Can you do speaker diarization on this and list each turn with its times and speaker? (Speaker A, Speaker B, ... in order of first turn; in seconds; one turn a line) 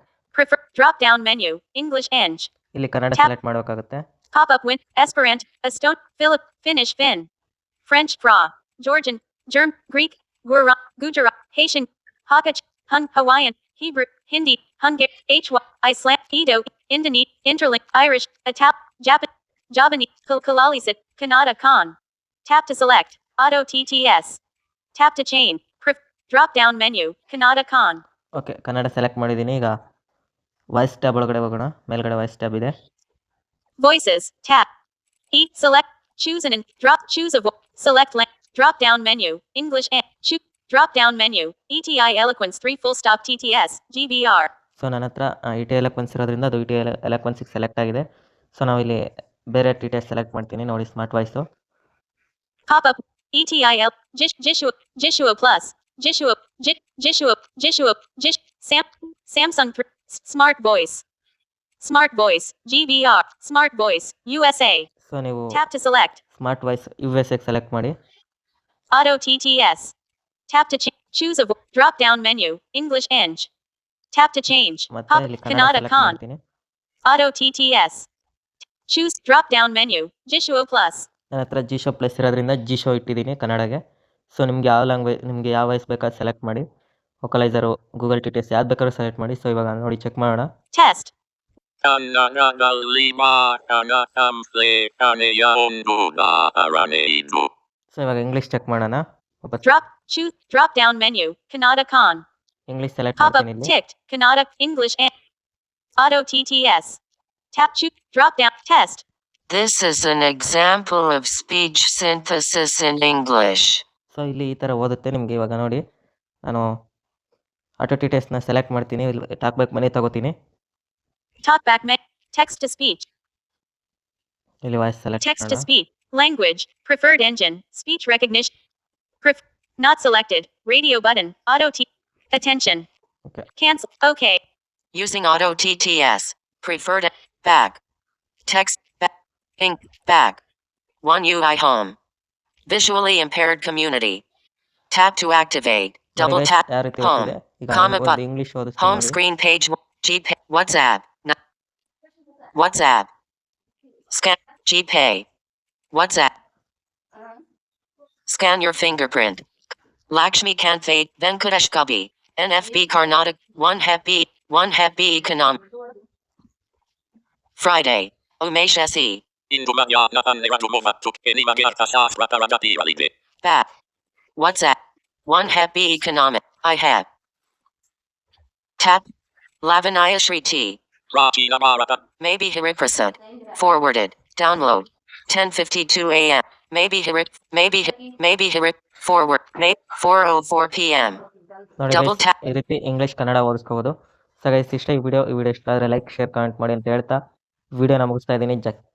Speaker A: 0.3-2.5
Speaker B: 2.7-4.0
Speaker A: 4.3-7.3
Speaker A: 7.8-24.4
Speaker A: 24.9-28.0
Speaker B: 28.4-29.7
Speaker B: 30.7-32.7
Speaker A: 33.8-34.7
Speaker A: 35.3-44.5
Speaker B: 44.8-48.0
Speaker B: 48.5-49.0
Speaker B: 49.5-51.4
Speaker A: 52.7-61.0
Speaker A: 61.8-64.9
Speaker B: 65.1-65.6
Speaker A: 65.5-66.2
Speaker B: 66.4-67.9
Speaker A: 68.9-69.9
Speaker A: 70.5-73.5
Speaker A: 74.1-76.2
Speaker B: 74.9-76.4
Speaker A: 77.0-78.1
Speaker A: 78.9-81.1
Speaker B: 81.3-83.8
Speaker B: 84.3-86.6
Speaker B: 87.2-90.5
Speaker A: 90.7-91.1
Speaker C: 91.8-97.5
Speaker B: 97.9-99.6
Speaker A: 99.6-102.2
Speaker B: 102.7-103.7
Speaker A: 103.2-105.1
Speaker A: 106.0-107.0
Speaker A: 107.5-109.0
Speaker D: 109.5-113.8
Speaker B: 114.1-115.8
Speaker B: 117.8-120.3
Speaker A: 121.4-123.0
Speaker B: 124.6-125.7
Speaker A: 125.2-128.5
Speaker A: 129.2-132.9
Speaker A: 133.6-134.4
Speaker D: 134.9-137.8
Speaker D: 138.4-140.4
Speaker D: 141.0-141.9
Speaker D: 142.7-144.2
Speaker D: 144.9-148.2
Speaker B: 146.2-149.2
Speaker D: 148.8-151.3
Speaker D: 152.5-153.1
Speaker D: 154.1-155.2
Speaker D: 155.9-156.3
Speaker D: 158.3-159.4
Speaker D: 160.1-165.6
Speaker D: 167.6-169.2
Speaker C: 169.5-173.1
Speaker D: 173.4-173.7
Speaker D: 174.3-177.1
Speaker D: 178.8-179.0
Speaker D: 179.6-180.8
Speaker C: 181.1-182.0
Speaker D: 182.2-191.2
Speaker B: 191.8-197.2
Speaker D: 191.9-192.4
Speaker B: 197.8-198.8